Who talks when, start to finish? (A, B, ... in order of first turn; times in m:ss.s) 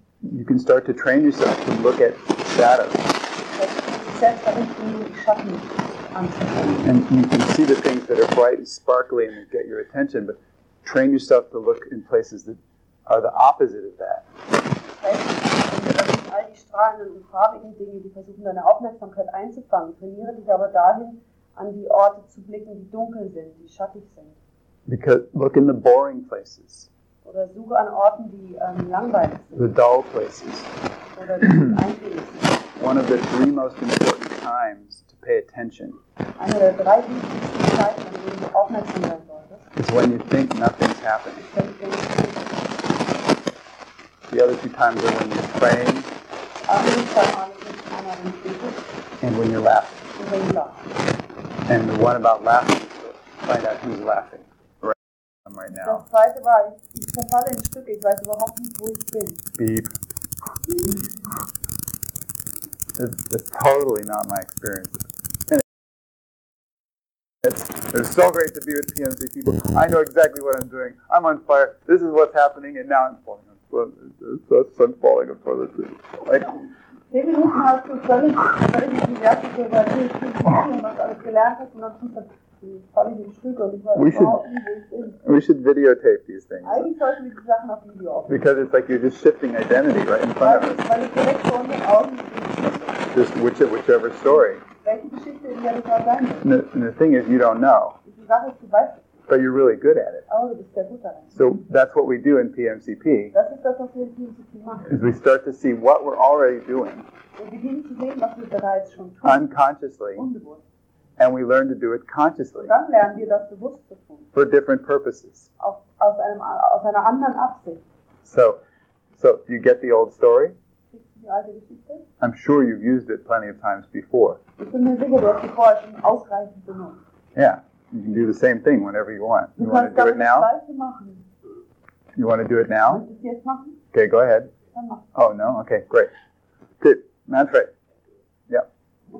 0:00.2-0:03.1 A
0:03.4-0:06.8 B
0:06.6-0:14.2 A
0:14.9-0:24.4 B
0:24.9-0:26.9 A
0:27.2-0:29.7 B
0:29.6-0:30.7 A
0:31.1-0:32.7 B
0:32.8-0:36.0 A
0:36.4-0:39.7 B
0:39.8-0:41.5 A
0:41.4-0:42.7 B
0:44.3-0:46.1 A
0:46.7-0:48.8 B
0:49.2-0:50.0 A
0:50.2-0:50.9 B
0:51.7-0:56.0 A
0:55.8-0:59.4 B
0:59.6-0:59.9 A
1:03.0-1:05.6 A
1:07.4-1:16.6 A
1:17.1-1:25.2 B
1:24.0-1:24.4 A
1:25.2-1:26.9 A
1:26.6-1:28.4 B
1:28.3-1:30.8 A
1:30.4-1:33.1 B
1:33.1-1:34.6 A
1:34.8-1:36.5 B
1:36.4-1:38.0 A
1:38.0-1:39.1 B
1:39.3-1:40.2 A
1:40.3-1:41.3 B
1:41.3-1:43.3 A
1:43.3-1:44.9 B
1:44.9-1:47.1 A
1:47.3-1:49.5 B
1:49.2-1:50.3 A
1:50.1-1:50.6 B
1:51.2-1:52.7 A
1:52.6-1:54.3 B
1:54.3-1:55.5 A
1:55.6-1:57.8 B
1:58.2-1:58.6 A
1:59.1-2:00.6 A
2:00.9-2:02.0 B
2:02.2-2:04.4 A
2:04.6-2:07.0 B
2:07.4-2:10.5 A
2:09.6-2:11.2 B
2:12.2-2:13.0 A
2:12.8-2:13.7 B
2:13.9-2:14.5 A
2:14.7-2:15.1 B
2:15.1-2:16.1 A
2:16.8-2:17.7 A